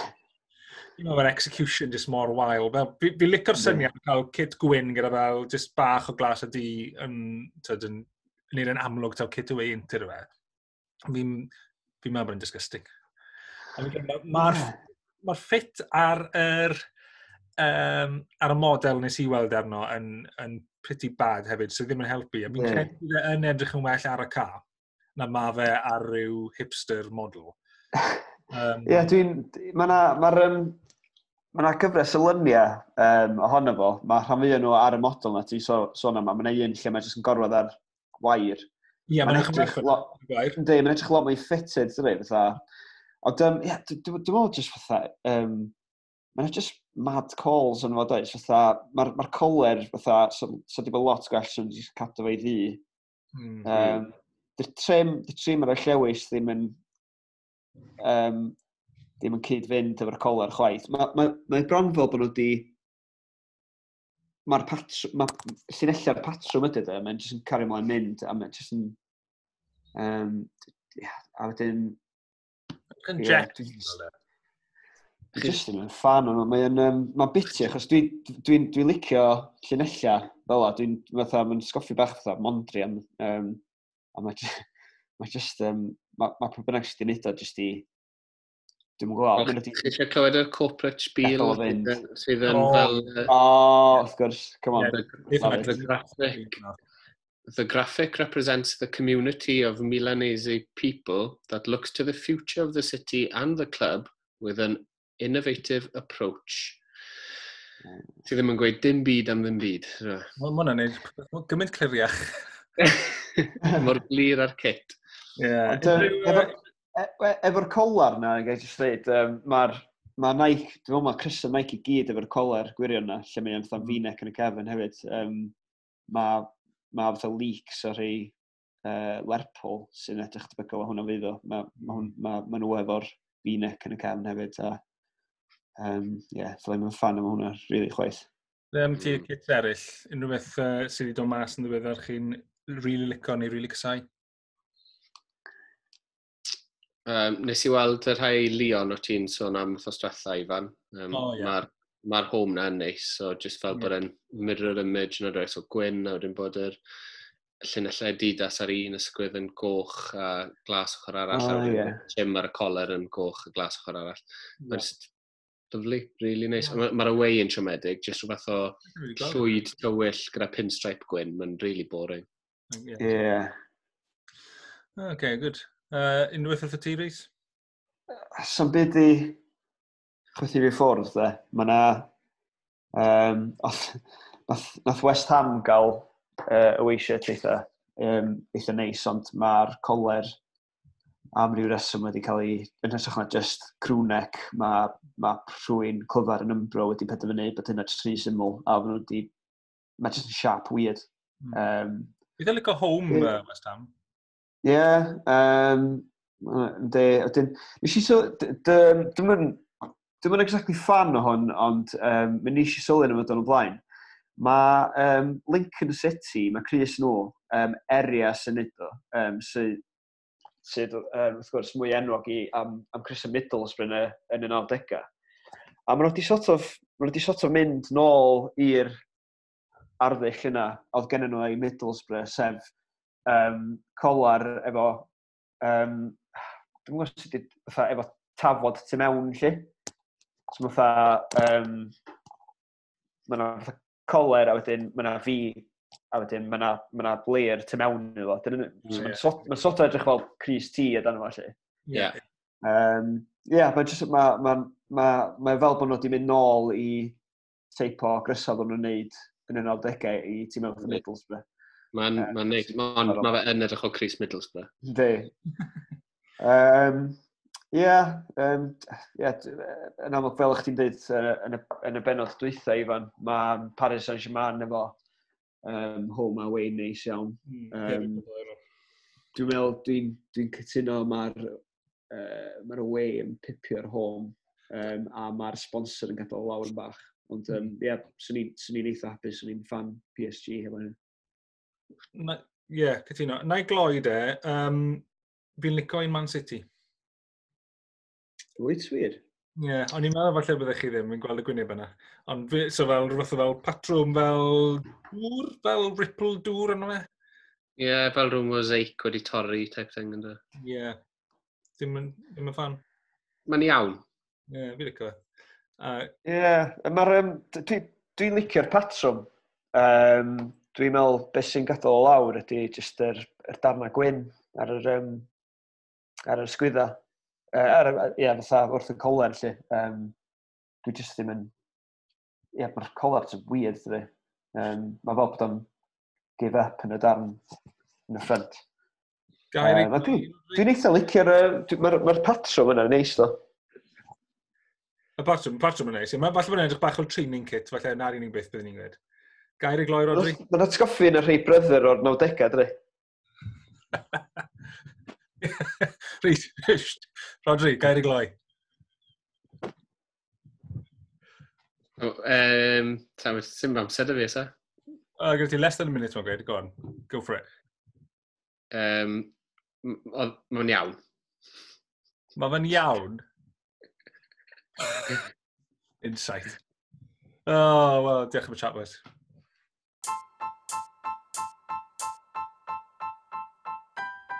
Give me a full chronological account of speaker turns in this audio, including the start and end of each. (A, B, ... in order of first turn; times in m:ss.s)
0:01.0-0:10.3 A
0:03.6-0:03.8 B
0:11.1-0:11.5 A
0:12.0-0:12.9 A
0:13.8-0:16.8 A
0:14.3-0:14.8 B
0:17.6-0:24.6 A
0:22.5-0:22.9 B
0:25.2-0:27.6 A
0:28.5-0:29.1 A
0:28.8-0:30.8 B
0:31.5-0:38.7 B
0:39.1-0:40.6 A
0:39.2-0:42.6 B
0:43.2-0:45.7 B
0:46.4-0:52.8 B
0:53.3-0:54.0 A
0:53.6-0:56.8 B
0:58.0-0:58.6 B
0:59.2-1:02.7 B
1:04.4-1:09.0 B
1:09.9-1:12.0 B
1:13.0-1:14.1 A
1:13.2-1:13.8 B
1:15.3-1:23.6 B
1:24.1-1:24.6 B
1:25.2-1:27.9 B
1:29.0-1:29.9 B
1:29.4-1:33.3 C
1:31.2-1:32.0 B
1:32.5-1:33.1 A
1:33.3-1:35.7 B
1:34.8-1:36.8 A
1:35.4-1:36.6 C
1:37.5-1:46.8 C
1:48.2-1:50.3 C
1:50.4-1:52.9 A
1:52.8-1:55.0 C
1:55.4-1:56.6 A
1:55.7-2:05.5 B
2:06.1-2:14.8 B
2:15.8-2:18.3 B
2:18.7-2:24.0 A
2:19.0-2:19.3 C
2:27.0-2:36.8 C
2:31.1-2:31.5 A
2:37.6-2:45.1 C
2:41.3-2:42.0 B
2:45.7-2:52.2 C
2:48.9-2:49.6 A
2:52.7-2:53.2 A
2:53.0-2:53.5 B
2:55.0-2:57.3 A
2:58.1-2:59.4 B
3:00.4-3:02.1 B
3:02.9-3:10.4 B
3:11.3-3:19.3 B
3:20.0-3:22.1 B
3:22.4-3:23.9 A
3:24.6-3:29.7 B
3:30.2-3:33.8 B
3:34.4-3:39.8 B
3:40.6-3:45.1 B
3:45.9-3:49.0 B
3:50.0-3:52.7 B
3:53.3-3:55.1 B
3:55.6-3:56.2 B
3:56.8-3:59.7 B
4:00.5-4:01.9 B
4:03.3-4:11.5 B
4:08.9-4:09.2 A
4:11.9-4:12.2 A
4:12.6-4:17.2 B
4:17.7-4:21.4 B
4:21.9-4:24.7 C
4:22.2-4:23.3 B
4:24.8-4:25.3 B
4:26.4-4:27.2 B
4:27.7-4:34.9 B
4:35.6-4:38.2 B
4:37.5-4:38.6 A
4:39.3-4:41.6 B
4:42.1-4:51.0 B
4:52.1-4:55.0 A
4:55.6-4:56.6 A
4:58.6-4:59.2 B
4:59.6-5:07.1 A
5:07.8-5:10.4 C
5:10.6-5:11.0 A
5:11.8-5:12.8 A
5:13.5-5:14.0 C
5:14.5-5:15.2 A
5:15.8-5:16.1 A
5:16.2-5:25.3 B
5:26.3-5:27.0 B
5:27.5-5:30.1 B
5:30.8-5:31.5 B
5:32.5-5:35.7 B
5:36.4-5:37.4 B
5:38.1-5:38.6 B
5:39.5-5:40.6 A
5:39.6-5:43.4 B
5:45.2-5:49.0 A
5:49.6-5:50.4 A
5:50.1-5:52.7 B
5:53.9-5:54.4 A
5:55.4-5:58.3 A
6:02.0-6:04.5 C
6:05.2-6:07.5 A
6:08.7-6:09.3 C
6:09.8-6:11.0 C
6:12.4-6:13.2 A
6:16.0-6:16.6 A
6:17.4-6:19.0 A